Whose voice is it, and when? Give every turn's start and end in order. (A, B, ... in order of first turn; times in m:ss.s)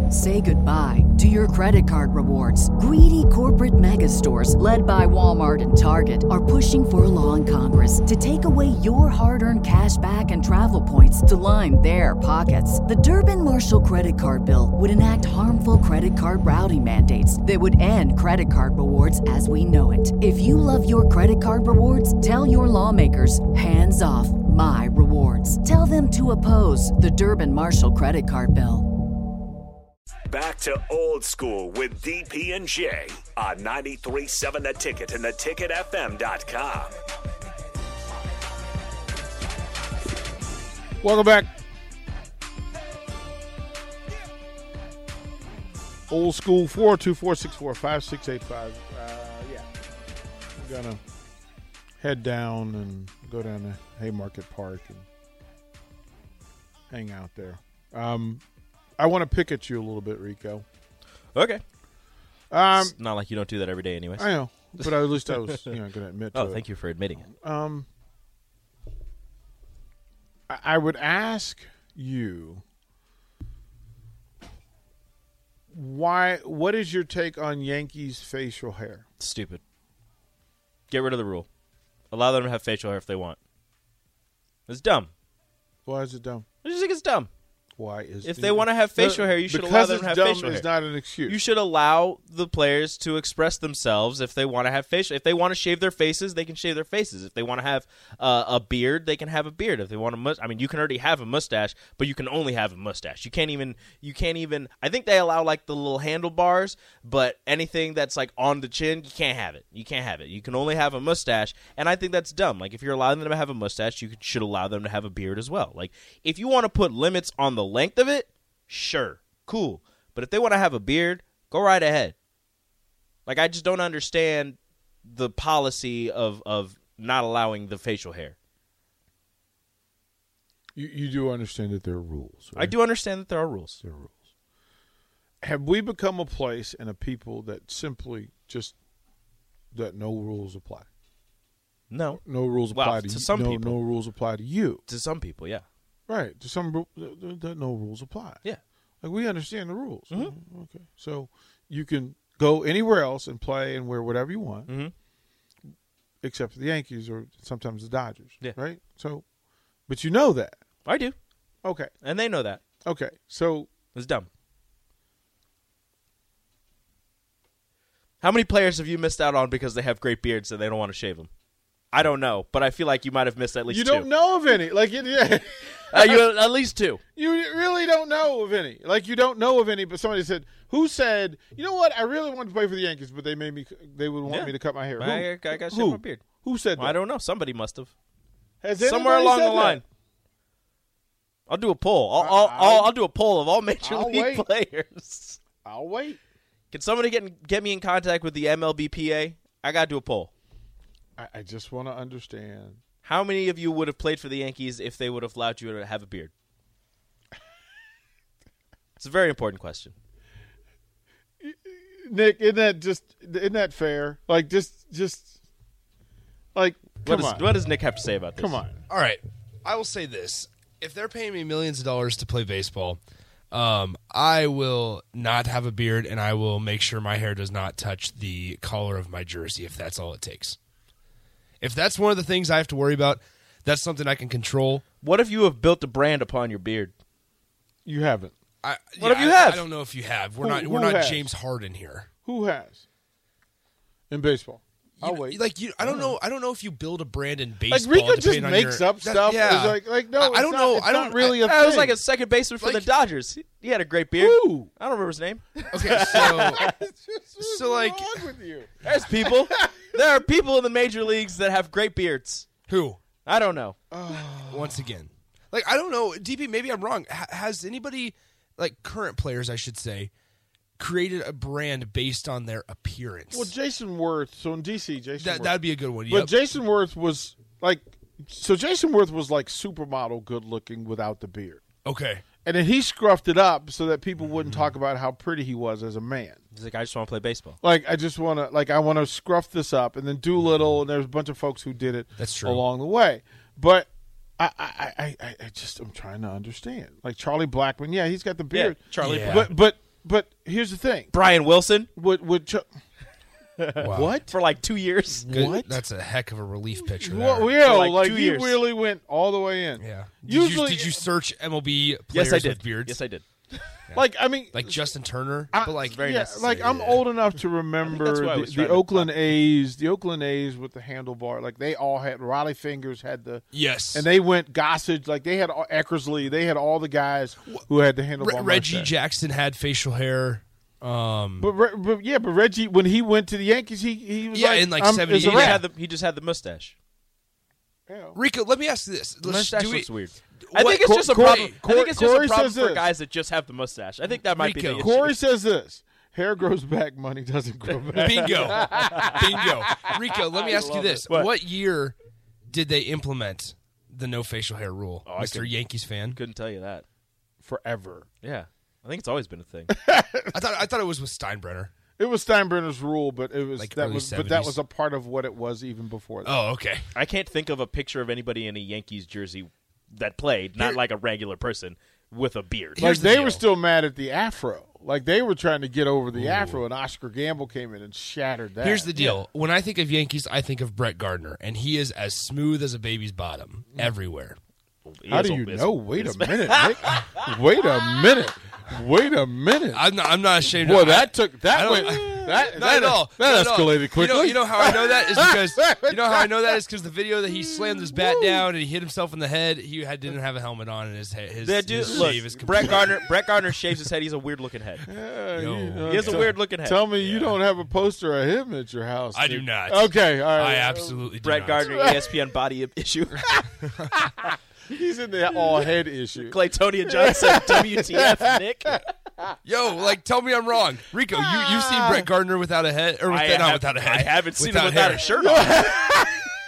0:00.1-0:28.9 A
0:30.3-0:36.9 B
0:41.0-0:41.5 C
0:46.1-0:49.7 C
0:50.6-0:51.0 C
0:52.0-0:55.1 C
0:56.9-0:58.4 C
0:59.0-1:00.6 C
1:01.3-1:01.6 D
1:02.5-1:03.0 C
1:02.7-1:05.8 D
1:04.2-1:06.6 C
1:06.3-1:07.3 D
1:07.3-1:07.9 C
1:10.5-1:12.6 C
1:15.7-1:19.0 C
1:19.2-1:19.6 D
1:20.9-1:21.5 D
1:22.1-1:23.4 D
1:24.7-1:25.1 D
1:25.9-1:26.4 C
1:26.6-1:27.3 D
1:27.8-1:31.4 C
1:28.2-1:30.7 D
1:31.3-2:02.2 D
2:03.3-2:08.4 D
2:10.8-2:12.8 C
2:12.6-2:13.8 D
2:13.8-2:14.2 C
2:15.4-2:18.8 C
2:19.7-2:20.9 C
2:21.9-2:22.2 D
2:22.2-2:24.8 C
2:22.7-2:23.8 D
2:24.9-2:25.6 D
2:26.1-2:28.4 C
2:29.0-2:34.7 C
2:34.7-2:34.9 D
2:36.2-2:39.2 C
2:39.9-2:40.6 C
2:40.8-2:41.2 D
2:41.6-2:41.9 C
2:42.0-2:42.6 D
2:42.8-2:43.7 C
2:43.9-2:44.3 D
2:48.2-2:51.3 D
2:51.9-2:54.1 D
2:53.7-2:56.3 C
2:55.9-2:57.0 D
2:57.2-3:07.0 C
3:04.3-3:06.2 D
3:06.8-3:07.9 D
3:08.6-3:09.8 C
3:08.8-3:09.8 D
3:11.5-3:15.4 D
3:12.2-3:12.9 C
3:13.8-3:14.5 C
3:15.6-3:16.2 C
3:16.7-3:20.3 D
3:21.2-3:22.8 C
3:23.0-3:26.3 D
3:29.0-3:29.9 D
3:31.4-3:35.4 C
3:36.6-3:37.5 C
3:37.1-3:38.6 D
3:38.4-3:38.8 C
3:38.9-3:43.0 E
3:43.5-3:50.6 E
3:51.6-3:54.8 E
3:55.0-3:56.9 D
3:57.8-3:58.3 C
3:58.6-4:02.1 E
3:59.0-3:59.7 D
4:00.4-4:01.3 C
4:02.2-4:02.8 C
4:04.1-4:06.1 C
4:05.0-4:11.2 E
4:07.7-4:12.0 C
4:11.2-4:16.7 D
4:12.6-4:12.9 E
4:14.2-4:14.7 C
4:15.7-4:16.7 E
4:15.8-4:19.9 C
4:17.4-4:18.1 E
4:18.8-4:22.5 D
4:22.7-4:23.0 E
4:23.2-4:23.8 D
4:23.9-4:25.0 C
4:24.4-4:30.1 E
4:30.8-4:33.5 E
4:33.3-4:41.6 C
4:35.2-4:36.3 E
4:41.8-4:42.2 E
4:42.4-4:46.4 C
4:44.2-4:44.7 E
4:46.5-4:47.6 D
4:47.6-5:01.1 C
4:52.2-4:52.6 E
4:58.5-4:59.6 D
4:59.0-4:59.5 E
5:01.1-5:01.9 D
5:01.9-5:02.7 C
5:03.6-5:05.4 D
5:03.8-5:04.3 E
5:05.2-5:05.8 C
5:05.3-5:07.6 E
5:06.9-5:11.0 C
5:07.6-5:08.6 D
5:09.8-5:13.0 E
5:12.1-5:13.2 D
5:13.9-5:16.0 E
5:13.9-5:14.8 C
5:15.5-5:28.9 C
5:15.8-5:17.1 D
5:17.8-5:19.1 D
5:23.5-5:24.1 E
5:28.2-5:31.5 E
5:31.4-5:35.6 C
5:34.3-5:35.6 E
5:35.1-5:36.8 D
5:37.9-5:38.2 C
5:38.2-5:39.9 E
5:39.2-5:45.1 D
5:40.5-5:41.3 E
5:40.6-5:42.9 C
5:44.3-5:45.0 E
5:44.8-5:51.0 C
5:47.9-5:52.0 E
5:51.1-5:51.3 D
5:52.5-5:56.2 E
5:55.1-5:55.6 D
5:56.1-5:56.8 D
5:57.4-5:58.1 C
5:58.2-5:59.7 D
5:59.7-6:00.3 C
6:00.3-6:01.7 E
6:02.0-6:06.3 C
6:03.6-6:04.6 E
6:06.2-6:06.9 E
6:06.9-6:13.4 D
6:12.8-6:19.2 C
6:12.8-6:13.4 E
6:16.1-6:16.6 E
6:18.6-6:24.4 E
6:24.8-6:27.1 D
6:25.1-6:29.8 C
6:29.7-6:43.0 E
6:30.5-6:36.5 C
6:37.8-6:38.4 C
6:41.4-6:44.9 D
6:41.7-6:43.0 C
6:44.9-6:52.1 C
6:45.4-6:46.3 E
6:45.8-6:46.9 D
6:47.0-6:47.4 E
6:49.1-6:51.7 E
6:51.2-6:53.3 D
6:53.7-6:53.9 E
6:54.0-6:58.8 C
6:56.2-6:58.8 D
6:59.4-7:05.2 E
7:01.1-7:02.1 C
7:03.1-7:05.9 D
7:05.1-7:06.3 C